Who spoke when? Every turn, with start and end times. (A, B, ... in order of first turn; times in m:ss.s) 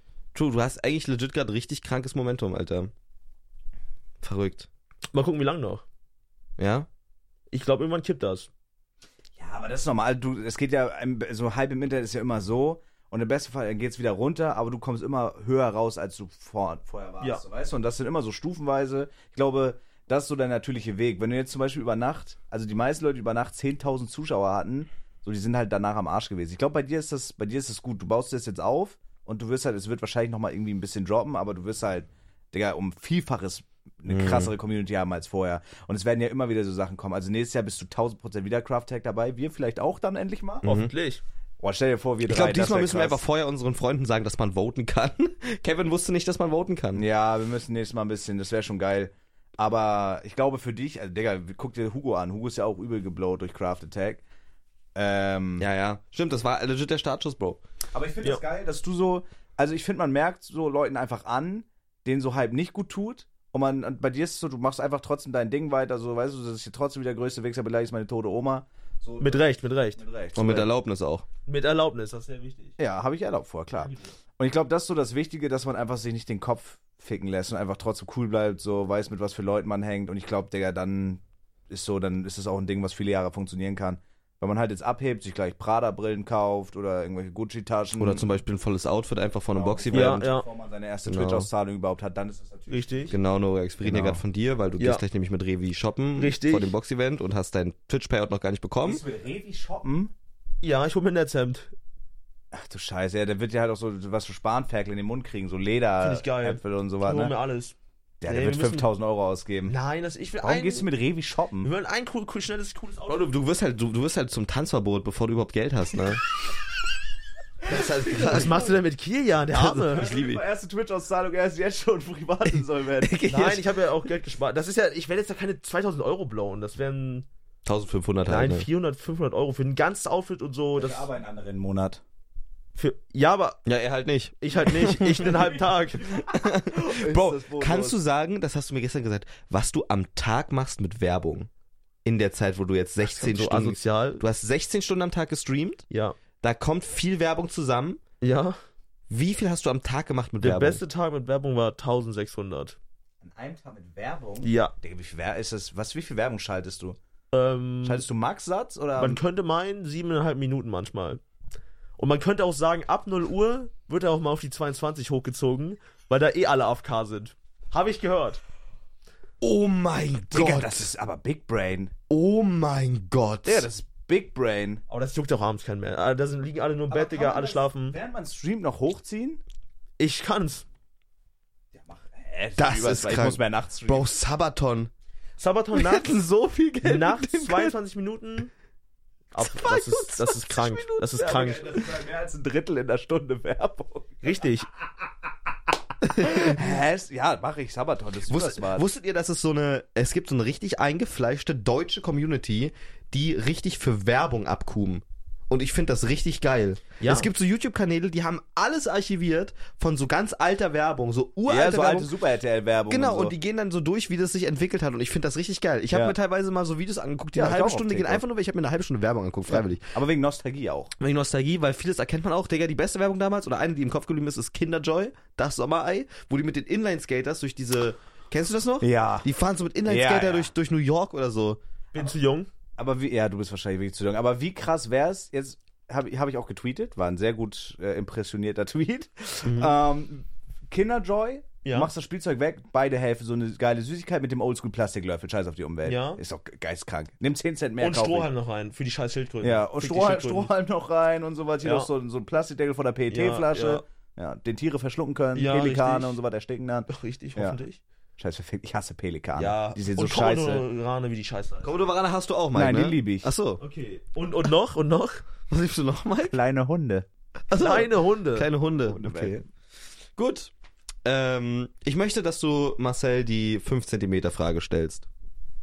0:00.3-0:02.9 A
0:04.2-0:04.7 A
0:05.1-0:05.8 B
0:06.6-0:06.9 A
0:07.5-0:08.5 B
0:09.4-0:40.8 C
0:34.1-0:34.5 A
0:40.6-0:40.9 A
0:40.6-0:41.2 B
0:41.6-0:43.2 C
0:42.2-0:47.0 A
0:47.0-0:54.2 C
0:55.0-0:55.7 C
0:55.6-0:57.6 A
0:57.9-1:10.7 C
1:09.2-1:10.0 B
1:10.4-1:11.3 A
1:11.5-1:12.8 B
1:12.8-1:28.3 C
1:28.0-1:30.2 A
1:29.5-1:33.1 C
1:29.9-1:30.4 B
1:31.1-1:31.5 A
1:32.7-1:33.1 B
1:33.1-1:39.0 A
1:33.8-1:34.2 C
1:36.2-1:36.7 B
1:38.8-1:40.1 C
1:40.6-1:41.7 B
1:42.5-1:47.3 C
1:46.0-1:47.8 B
1:48.2-1:49.8 C
1:48.3-1:48.9 B
1:49.7-1:50.9 B
1:50.4-1:51.7 C
1:51.6-1:53.3 B
1:53.1-1:56.2 A
1:57.7-1:58.8 A
1:58.1-2:00.1 B
1:59.5-2:00.4 A
1:59.9-2:03.6 C
2:03.2-2:07.3 B
2:07.6-2:08.7 A
2:08.3-2:11.1 B
2:10.8-2:12.0 C
2:12.8-2:13.6 B
2:13.7-2:15.5 A
2:14.4-2:16.2 B
2:16.0-2:18.0 C
2:16.3-2:21.5 A
2:22.0-2:25.9 A
2:23.0-2:24.2 B
2:25.9-2:26.2 B
2:26.4-2:28.0 A
2:28.2-2:28.6 B
2:29.1-2:30.8 A
2:30.4-2:32.8 B
2:33.2-2:37.0 C
2:34.4-2:34.7 B
2:37.3-2:38.0 B
2:37.8-2:39.2 C
2:39.0-2:41.2 B
2:42.0-2:48.4 B
2:49.4-2:50.9 A
2:50.3-2:51.9 C
2:52.1-2:53.7 A
2:53.4-2:54.8 C
2:54.9-2:58.0 B
2:56.9-2:59.4 C
3:00.0-3:00.6 B
3:01.7-3:04.1 C
3:02.6-3:04.9 A
3:05.4-3:06.2 B
3:05.7-3:07.8 A
3:06.8-3:08.5 B
3:09.3-3:11.9 B
3:09.4-3:11.2 A
3:11.1-3:14.4 C
3:14.2-3:14.7 B
3:16.1-3:18.8 C
3:16.2-3:16.6 A
3:18.3-3:32.1 A
3:27.0-3:27.3 B
3:31.5-3:33.3 C
3:32.9-3:39.9 A
3:35.9-3:36.2 C
3:37.4-3:38.2 C
3:39.5-3:40.9 C
3:41.0-3:51.6 A
3:48.8-3:49.3 C
3:49.8-3:50.5 C
3:51.9-3:52.5 B
3:52.8-4:08.3 C
3:59.5-3:59.7 B
4:01.6-4:01.9 B
4:05.9-4:06.2 B
4:07.8-4:10.5 B
4:09.4-4:17.6 C
4:11.6-4:11.9 B
4:13.1-4:13.8 B
4:15.4-4:16.2 B
4:16.9-4:17.8 B
4:18.2-4:20.6 C
4:19.4-4:21.8 B
4:21.6-4:23.6 A
4:22.5-4:23.3 C
4:23.6-4:25.2 B
4:25.5-4:26.4 A
4:26.3-4:27.1 C
4:27.5-4:29.4 A
4:27.5-4:28.5 B
4:28.8-4:29.4 C
4:30.2-4:30.5 A
4:31.0-4:35.1 A